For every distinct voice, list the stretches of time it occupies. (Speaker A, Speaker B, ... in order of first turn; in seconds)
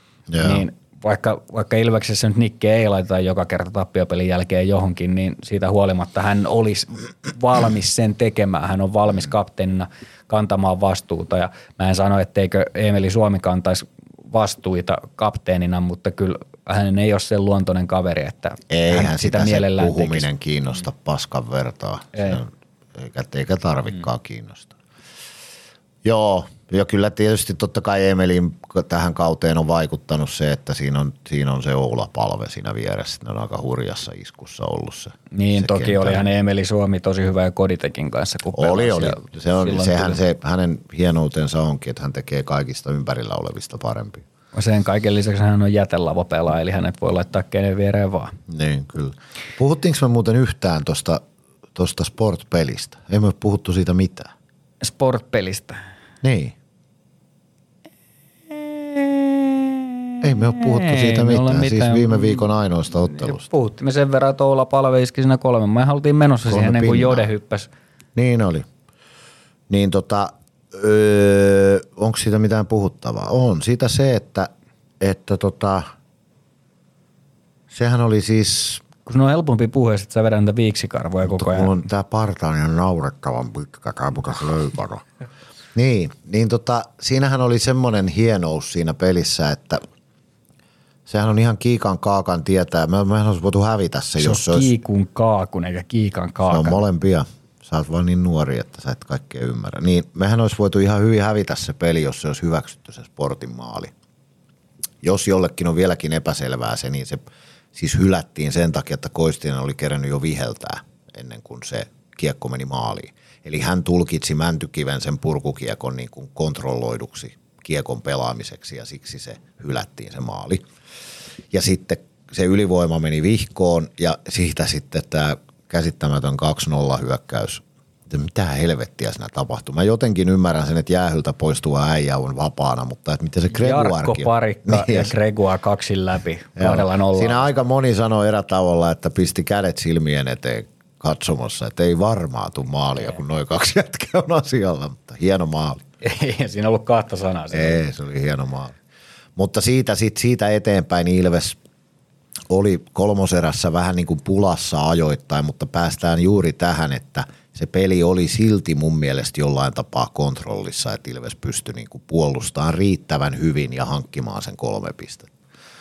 Speaker A: 0.3-0.7, 18.7-24.8, 26.0-36.3, 38.5-44.2, 48.5-51.2, 51.8-54.3, 56.2-56.6, 60.2-63.4, 66.5-67.3, 68.2-68.7, 69.7-75.9, 77.7-78.8, 81.2-85.0, 85.8-89.8, 91.1-94.7, 96.5-103.9, 105.0-107.2, 107.8-120.6, 121.5-135.1, 136.6-145.8, 147.5-148.8, 149.4-151.6, 152.5-165.3
Speaker B: 0.4-20.3, 22.1-22.4, 35.3-40.2, 44.5-48.4, 54.8-55.8, 58.5-62.5, 63.0-67.7, 79.0-81.8, 94.2-96.8, 133.6-137.5, 146.0-147.8